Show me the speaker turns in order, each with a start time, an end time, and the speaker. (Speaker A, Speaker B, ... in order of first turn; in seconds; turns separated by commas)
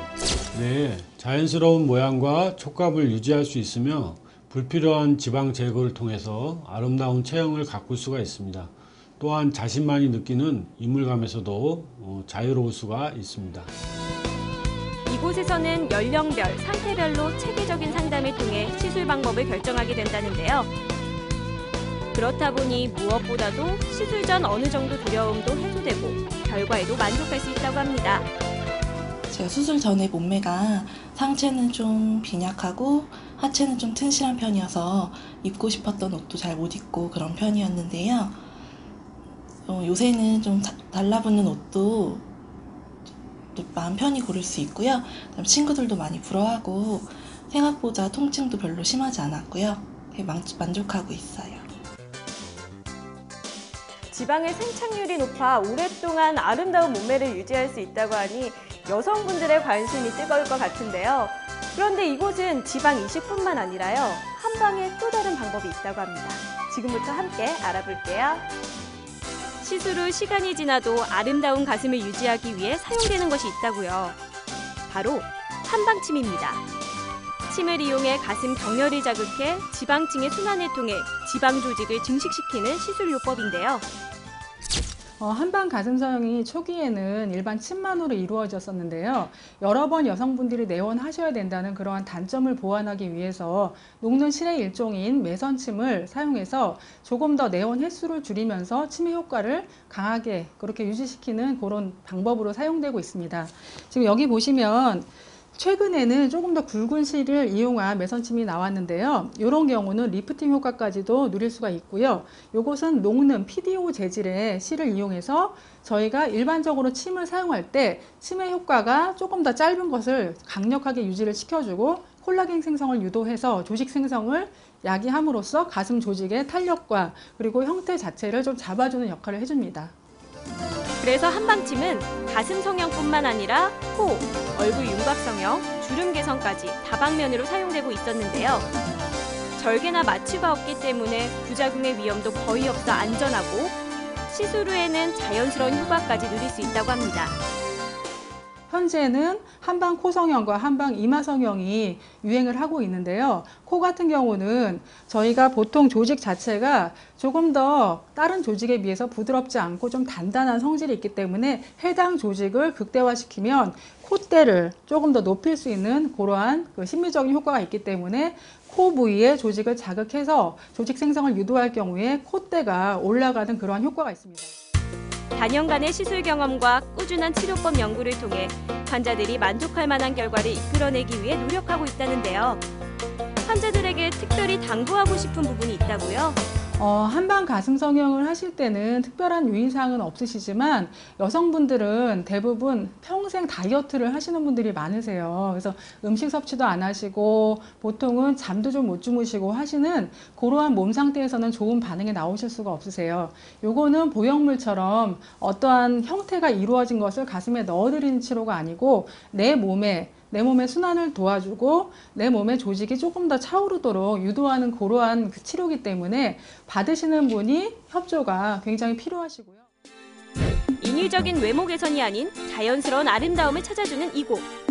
Speaker A: 0.5-13.7, Speaker B: 15.1-20.7, Speaker B: 22.1-28.3, Speaker C: 29.3-38.4, Speaker C: 39.7-42.3, Speaker C: 43.5-51.7, Speaker B: 54.1-68.5, Speaker B: 69.6-74.2, Speaker B: 74.9-76.6, Speaker B: 77.5-83.8, Speaker D: 85.2-129.9, Speaker B: 131.0-138.7, Speaker B: 139.6-147.4, Speaker D: 148.7-174.5, Speaker B: 175.3-182.7, Speaker B: 183.4-186.4, Speaker D: 186.8-219.7, Speaker B: 220.8-224.5